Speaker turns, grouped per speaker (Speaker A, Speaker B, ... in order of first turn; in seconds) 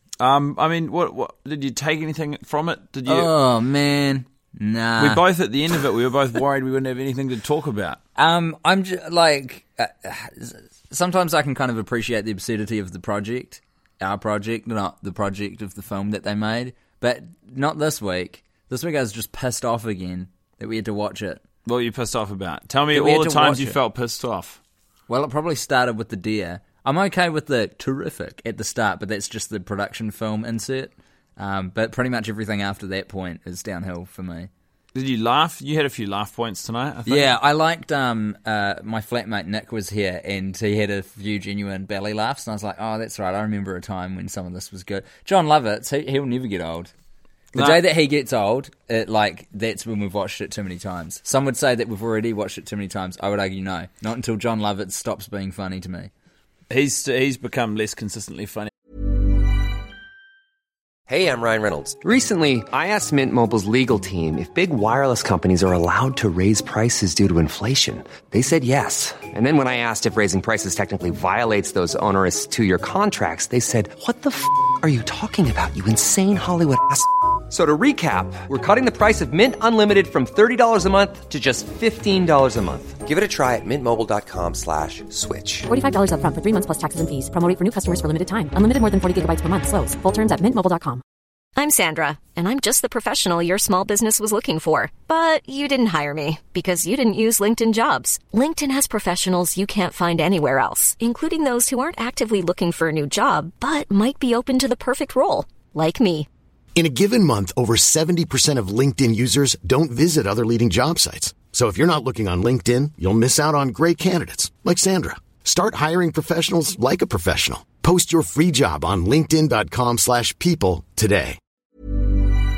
Speaker A: 0.2-3.3, 5.0-8.0, 21.6-24.6, 34.9-37.4, 47.5-47.8, 56.7-58.7
Speaker B: 3.0-5.2, 8.2-21.4, 22.9-23.8, 25.1-34.5, 37.0-46.9, 47.5-56.1
Speaker C: 61.1-85.7
Speaker D: 85.7-91.0
Speaker E: 91.5-106.3
Speaker F: 106.8-121.4